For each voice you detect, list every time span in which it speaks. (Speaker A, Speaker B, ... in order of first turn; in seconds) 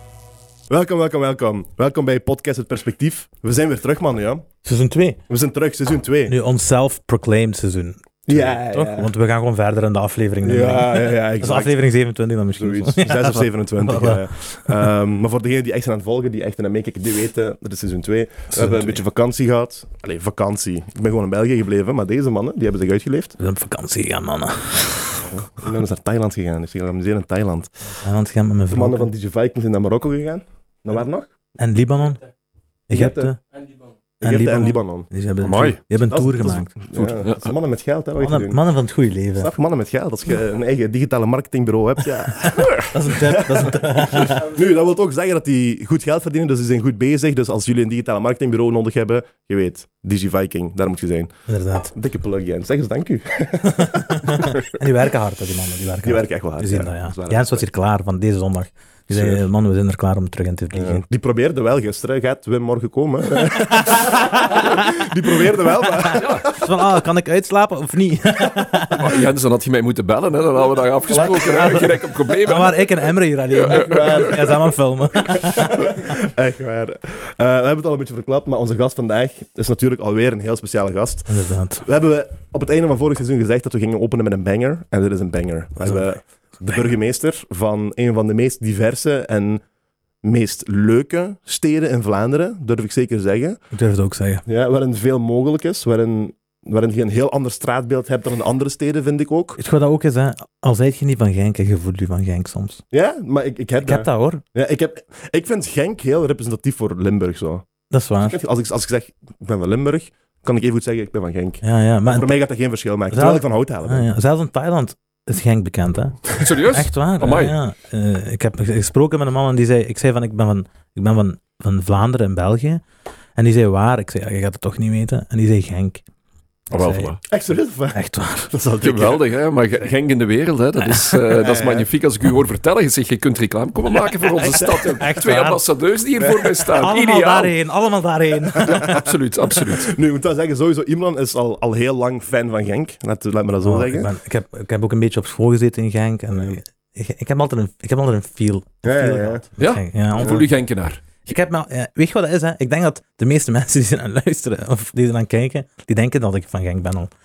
Speaker A: 0.7-4.5, 5.3-6.4, 8.3-9.1, 10.4-11.7, 12.6-23.4, 25.2-28.0, 28.7-31.3, 32.9-33.3, 34.2-35.1, 36.1-38.6, 39.4-54.8, 56.0-57.6, 59.1-59.4, 60.7-66.7, 71.1-71.9, 73.7-74.7, 75.2-89.6, 90.2-93.6, 94.5-99.6, 102.9-107.7, 108.2-114.1, 127.3-129.2, 131.3-131.8, 134.4-135.0, 136.2-136.5, 139.5-144.1, 148.8-149.4, 150.2-150.4
Speaker B: 4.6-5.2, 6.3-14.9, 18.6-19.0, 23.4-25.3, 28.0-29.1, 31.6-32.3, 32.9-33.4, 34.2-36.7, 38.2-39.5, 42.9-44.5, 51.5-51.9, 53.8-61.0, 63.5-64.8, 65.4-69.2, 71.1-76.1, 81.3-81.9, 93.7-94.4, 99.6-102.8, 103.8-104.4, 107.9-108.4, 111.6-112.3, 113.1-122.8, 123.4-126.0, 126.7-127.2, 127.9-128.5, 130.9-131.2, 134.4-135.6, 136.7-139.0, 143.6-150.4, 151.2-157.1
Speaker C: 35.4-35.8, 37.2-37.5, 66.1-66.5, 68.9-74.3, 116.4-117.6, 126.7-127.2, 128.8-137.5, 138.6-139.9, 149.6-151.0